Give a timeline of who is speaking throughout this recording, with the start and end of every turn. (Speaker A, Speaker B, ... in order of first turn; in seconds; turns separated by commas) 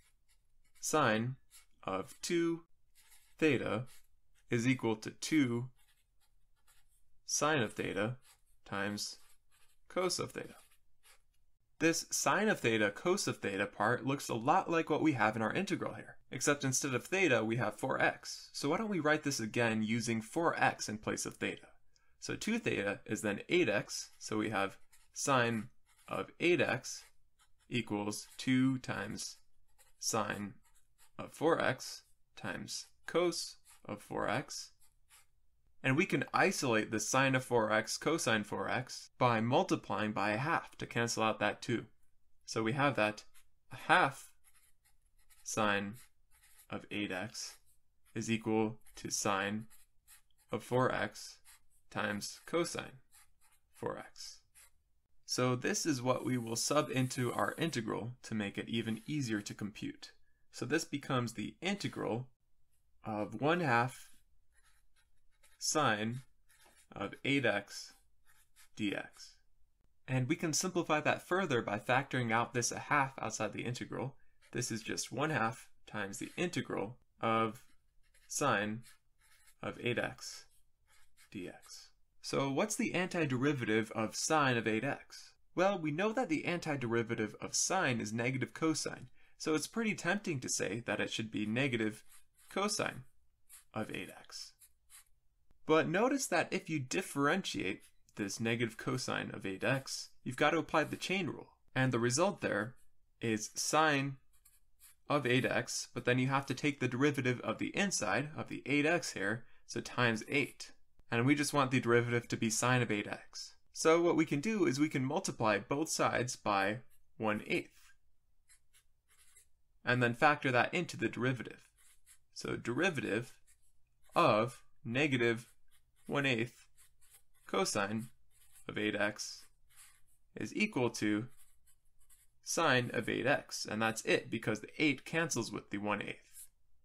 Speaker A: 0.8-2.7, Speaker A: 3.4-3.9, Speaker A: 4.5-5.7, Speaker A: 7.3-9.2, Speaker A: 9.9-10.6, Speaker A: 11.8-27.1, Speaker A: 27.7-29.4, Speaker A: 30.0-30.6, Speaker A: 31.2-34.7, Speaker A: 35.8-41.9, Speaker A: 42.5-44.3, Speaker A: 45.4-46.0, Speaker A: 46.7-47.6, Speaker A: 48.1-49.7, Speaker A: 50.5-53.0, Speaker A: 53.7-54.5, Speaker A: 55.3-62.3, Speaker A: 63.0-64.1, Speaker A: 65.6-66.2, Speaker A: 66.9-68.0, Speaker A: 68.8-69.4, Speaker A: 70.1-77.7, Speaker A: 78.3-78.9, Speaker A: 79.6-80.5, Speaker A: 81.3-93.1, Speaker A: 93.7-94.5, Speaker A: 95.7-104.2, Speaker A: 105.1-117.9, Speaker A: 119.8-121.7, Speaker A: 122.3-123.4, Speaker A: 124.2-125.5, Speaker A: 126.1-126.7, Speaker A: 127.5-128.1, Speaker A: 128.7-129.5, Speaker A: 130.3-131.3, Speaker A: 132.4-136.5